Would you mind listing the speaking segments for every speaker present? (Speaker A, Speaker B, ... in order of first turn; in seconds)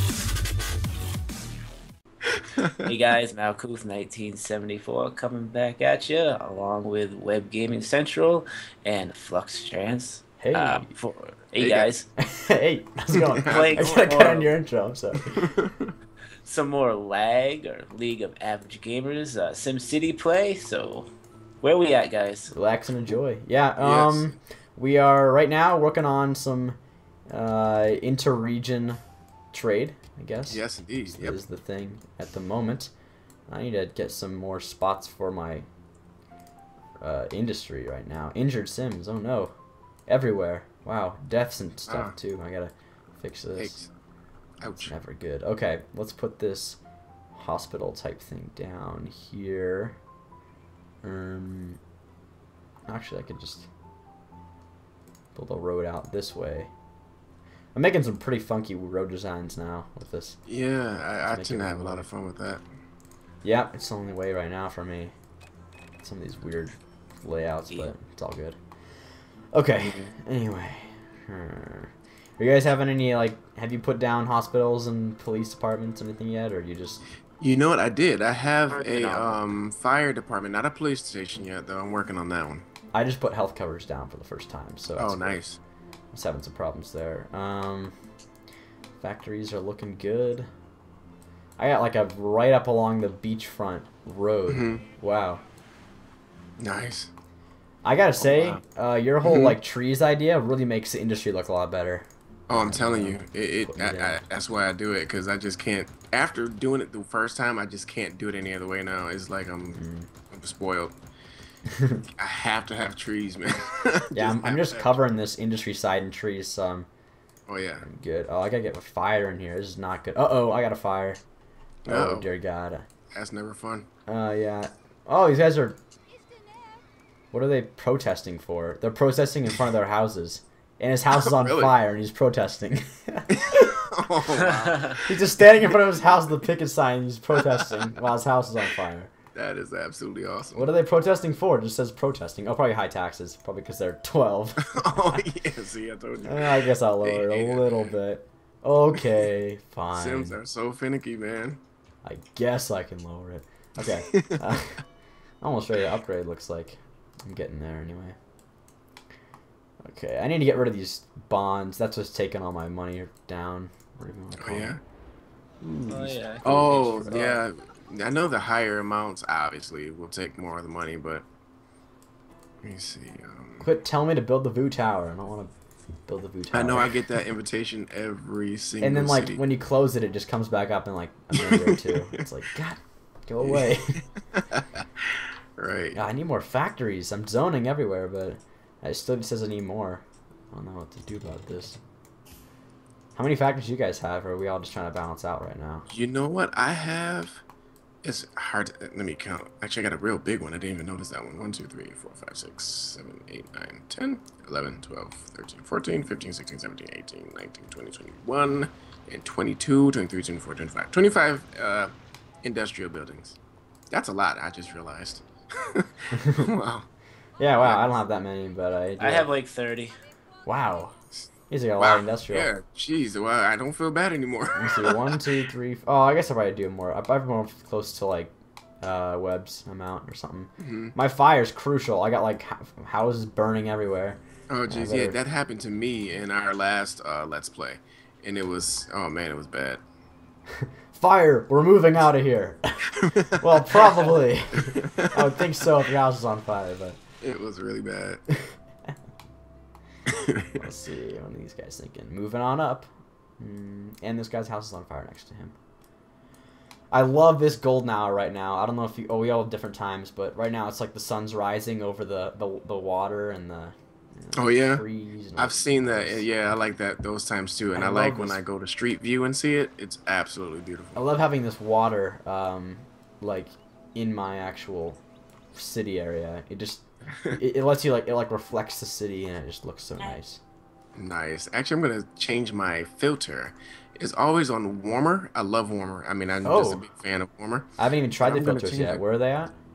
Speaker A: 2.3-2.9, 11.6-11.9, 13.1-14.2, 15.2-15.9, 23.8-24.4, 30.5-31.4, 41.9-42.1, 43.6-43.9, 44.6-44.9, 60.5-62.6, 69.8-70.1, 77.4-82.7, 85.0-85.6, 94.5-94.8, 96.6-97.1, 98.2-98.6, 99.2-99.5, 102.5-110.9, 112.2-115.0, 117.5-117.8, 121.8-122.3, 123.1-123.9, 131.1-131.7, 133.3-135.1, 137.3-137.9, 139.3-140.7, 144.6-147.9, 149.9-151.6, 153.8-154.4, 164.4-164.8, 166.4-171.2, 172.6-173.7, 176.5-179.4, 181.3-182.2, 183.4-186.0, 195.9-197.4, 198.0-211.9, 212.4-213.4, 213.9-216.9, 221.8-225.3, 230.6-230.9, 234.5-239.8, 243.0-243.4, 244.5-245.2, 247.2-248.2, 250.1-250.6, 264.3-264.8, 265.4-271.0, 280.9-289.0
Speaker B: 2.8-12.1, 13.4-14.5, 16.4-21.1, 21.6-22.5, 78.7-79.4, 165.9-167.3, 219.0-219.9
Speaker C: 10.4-10.9, 12.2-15.4, 22.5-26.8, 27.3-29.0, 29.5-32.9, 33.5-35.6, 37.0-39.5, 40.1-43.8, 44.8-46.8, 47.3-50.0, 51.0-51.8, 52.9-53.7, 55.3-56.7, 57.7-60.4, 61.2-62.1, 63.4-65.1, 66.0-68.6, 69.5-77.0, 82.9-85.4, 86.1-87.9, 89.0-90.5, 91.6-95.4, 97.8-104.2, 109.7-110.1, 111.7-112.0, 114.1-116.9, 117.8-121.2, 121.9-122.8, 124.1-125.8, 127.3-133.8, 135.0-139.1, 140.5-145.2, 146.2-150.4, 152.0-154.8, 155.4-158.2, 159.8-164.7, 165.6-167.4, 173.6-175.5, 176.1-177.0, 178.8-184.0, 185.9-191.8, 193.2-195.9, 216.1-216.5, 217.4-219.3, 220.4-220.9, 221.5-222.5, 224.6-235.2, 240.6-247.0, 250.5-255.5, 256.9-266.2, 267.7-268.4, 270.9-275.0, 275.5-280.4, 286.4-286.9, 287.8-289.5